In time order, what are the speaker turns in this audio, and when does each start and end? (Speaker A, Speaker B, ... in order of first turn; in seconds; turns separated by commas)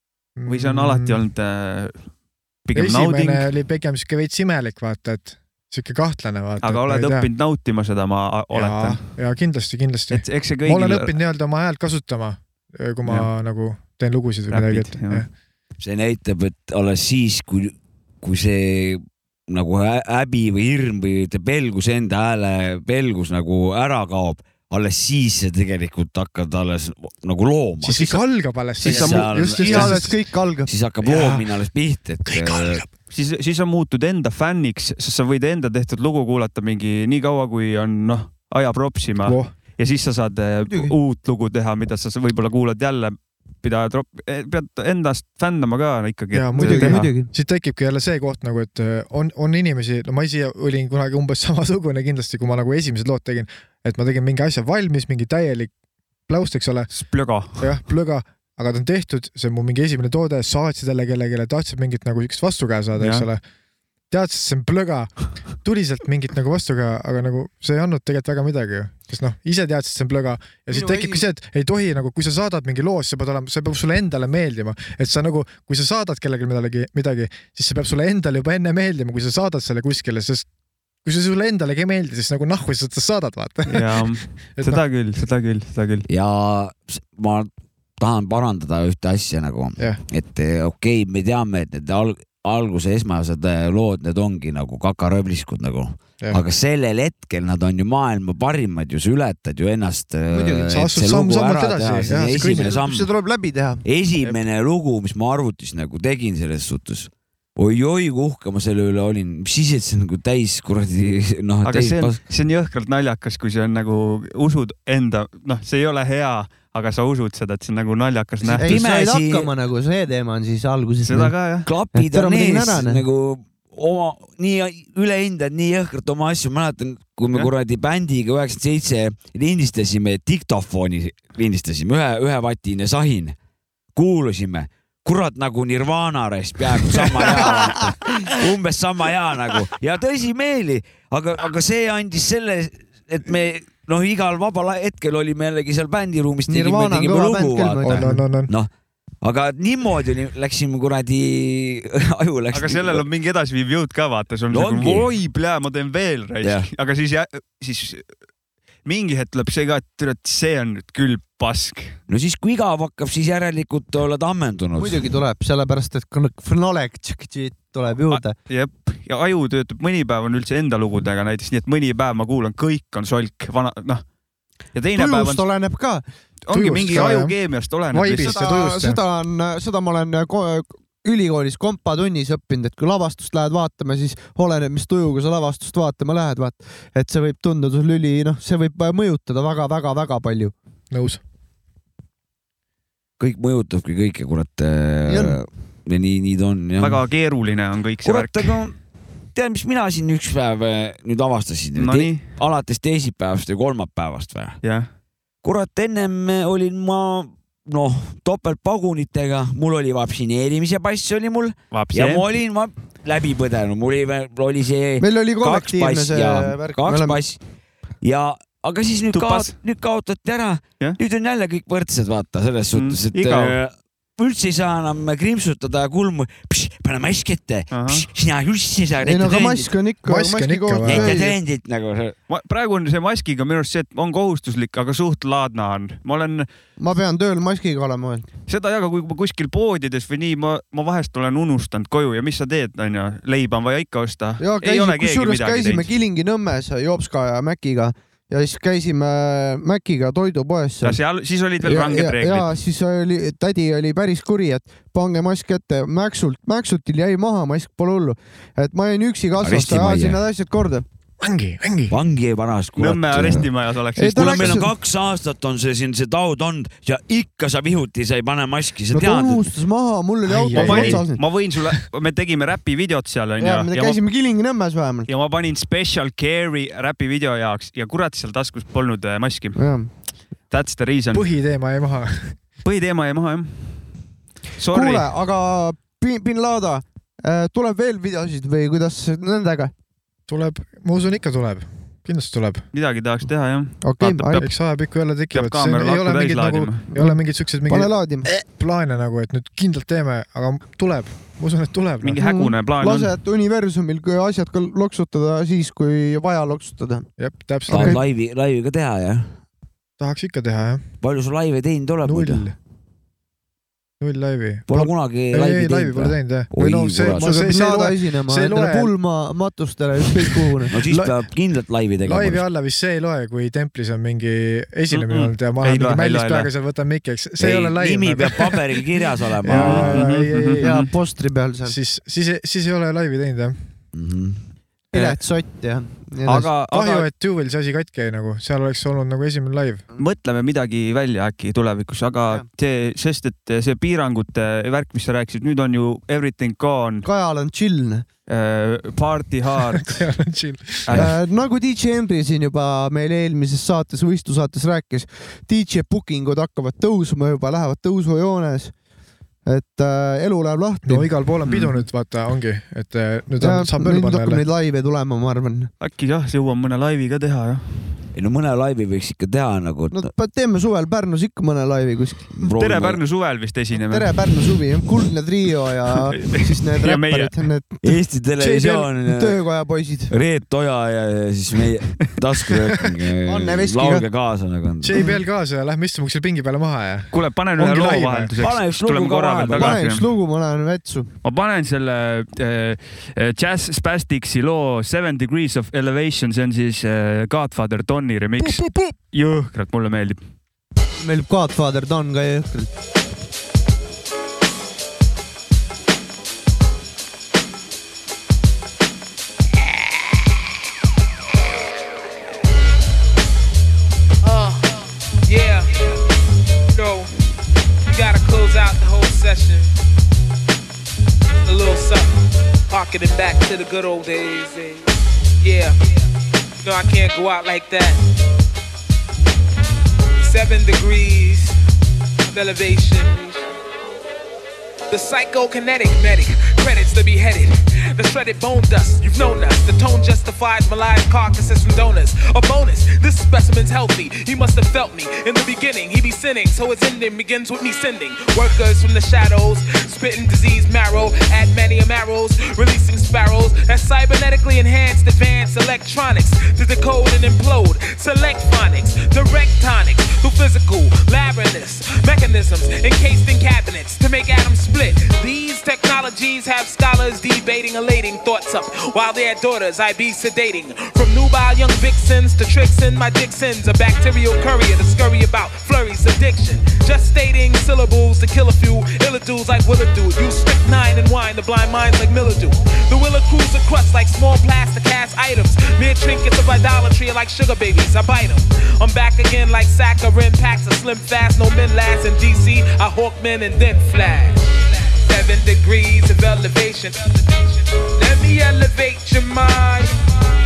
Speaker A: 0.3-1.2, Speaker B: 0.5-2.0, Speaker B: 2.6-3.5, Speaker A: 2.7-7.3, Speaker B: 6.6-9.1, Speaker A: 8.5-15.3, Speaker B: 10.1-11.1, Speaker B: 14.5-15.2, Speaker C: 15.8-28.2, Speaker A: 27.8-30.1, Speaker C: 28.8-30.1, Speaker B: 28.8-29.2, Speaker D: 29.6-30.7, Speaker C: 30.6-32.8, Speaker A: 31.1-31.4, Speaker B: 33.1-47.1, Speaker A: 39.2-39.5, Speaker D: 40.7-40.9, Speaker A: 46.3-55.7, Speaker D: 46.5-47.3, Speaker A: 56.3-56.9, Speaker B: 56.9-57.7, Speaker A: 57.5-63.4, Speaker B: 63.0-63.2, Speaker A: 64.1-80.5, Speaker D: 70.7-71.2, Speaker A: 81.0-84.8, Speaker B: 83.7-86.0, Speaker C: 86.1-87.5, Speaker C: 88.0-103.1, Speaker D: 100.3-100.8, Speaker A: 100.7-102.7, Speaker D: 102.5-103.8, Speaker C: 103.8-112.2, Speaker B: 111.6-118.7, Speaker D: 118.4-121.3, Speaker C: 118.6-119.5, Speaker B: 121.0-121.7, Speaker C: 121.6-133.3, Speaker D: 121.9-123.0, Speaker C: 133.9-148.7, Speaker D: 137.4-137.8, Speaker D: 146.5-148.2, Speaker A: 147.8-148.5, Speaker C: 149.2-153.0, Speaker B: 152.5-158.1, Speaker C: 154.5-155.0, Speaker C: 156.4-156.7, Speaker B: 158.8-162.0, Speaker C: 162.1-165.1, Speaker D: 164.8-168.3, Speaker B: 168.1-174.0, Speaker B: 174.7-175.4, Speaker D: 174.9-176.0, Speaker B: 176.4-178.4, Speaker A: 176.5-177.3, Speaker A: 177.9-179.0, Speaker D: 178.2-190.5, Speaker A: 190.9-191.2, Speaker C: 193.2-197.0, Speaker D: 195.1-195.4, Speaker B: 196.8-198.6, Speaker C: 198.0-198.8, Speaker C: 199.3-204.6, Speaker B: 201.8-202.2, Speaker B: 204.6-204.9, Speaker C: 205.4-217.4, Speaker B: 211.7-212.2, Speaker D: 215.0-217.2, Speaker C: 218.0-229.7, Speaker B: 219.1-219.5, Speaker B: 222.7-223.6, Speaker B: 227.7-228.1, Speaker D: 229.0-231.3, Speaker A: 230.1-231.2, Speaker C: 230.8-232.2, Speaker B: 232.3-236.5, Speaker D: 236.8-238.3, Speaker B: 238.5-245.9, Speaker D: 244.4-251.0, Speaker B: 250.8-252.5, Speaker D: 251.6-260.8, Speaker C: 259.4-260.2, Speaker A: 261.2-262.0, Speaker C: 261.9-263.5, Speaker B: 262.8-264.6, Speaker D: 263.9-264.7, Speaker C: 264.1-269.4, Speaker D: 268.9-271.2, Speaker A: 270.2-271.1, Speaker B: 270.5-274.0, Speaker D: 273.4-275.1, Speaker B: 275.1-279.6, Speaker D: 279.6-279.9, Speaker B: 280.5-281.3, Speaker A: 281.1-282.4, Speaker B: 282.6-283.9, Speaker B: 284.6-285.1, Speaker D: 284.7-289.7, Speaker A: 290.3-292.6, Speaker B: 292.7-294.5, Speaker D: 293.8-294.4, Speaker A: 294.4-302.2, Speaker B: 295.3-296.8, Speaker D: 296.9-298.3, Speaker B: 302.0-303.1, Speaker D: 302.2-307.1, Speaker A: 307.2-308.0, Speaker C: 307.7-309.4, Speaker D: 307.7-308.0, Speaker A: 310.0-310.9, Speaker C: 311.0-312.4, Speaker A: 312.0-312.6, Speaker A: 314.0-318.9, Speaker C: 314.7-317.3, Speaker D: 317.2-320.8, Speaker C: 320.7-322.4, Speaker A: 322.0-328.8, Speaker B: 324.9-326.5, Speaker C: 327.4-330.0, Speaker A: 329.4-330.8, Speaker B: 329.5-330.9, Speaker D: 330.6-331.8, Speaker A: 331.6-333.6, Speaker C: 333.9-334.4, Speaker D: 334.9-336.5, Speaker B: 336.2-337.1, Speaker A: 336.7-339.8, Speaker B: 340.0-347.1, Speaker D: 347.0-348.1, Speaker B: 348.3-350.0, Speaker A: 349.7-351.1, Speaker D: 350.9-358.7, Speaker D: 359.4-361.1, Speaker A: 360.8-364.4, Speaker B: 361.4-361.8, Speaker D: 363.4-365.7, Speaker B: 365.8-367.9, Speaker C: 368.1-370.1, Speaker D: 369.9-372.3, Speaker C: 372.3-373.0, Speaker B: 372.5-374.5, Speaker D: 373.7-377.8, Speaker B: 376.1-377.4, Speaker C: 377.8-379.4, Speaker A: 378.4-378.8, Speaker D: 379.0-380.1, Speaker C: 380.1-385.0, Speaker D: 383.2-384.0, Speaker A: 384.8-388.3, Speaker D: 384.9-385.2, Speaker B: 387.1-390.1, Speaker C: 388.4-389.8, Speaker D: 389.5-391.1, Speaker B: 391.2-400.2, Speaker A: 398.4-398.9, Speaker D: 401.0-402.7, Speaker E: 414.2-416.0, Speaker E: 416.7-417.1, Speaker E: 417.9-419.7, Speaker E: 421.4-425.9, Speaker E: 426.6-428.0, Speaker E: 430.2-431.6, Speaker E: 432.2-433.5, Speaker E: 434.9-500.0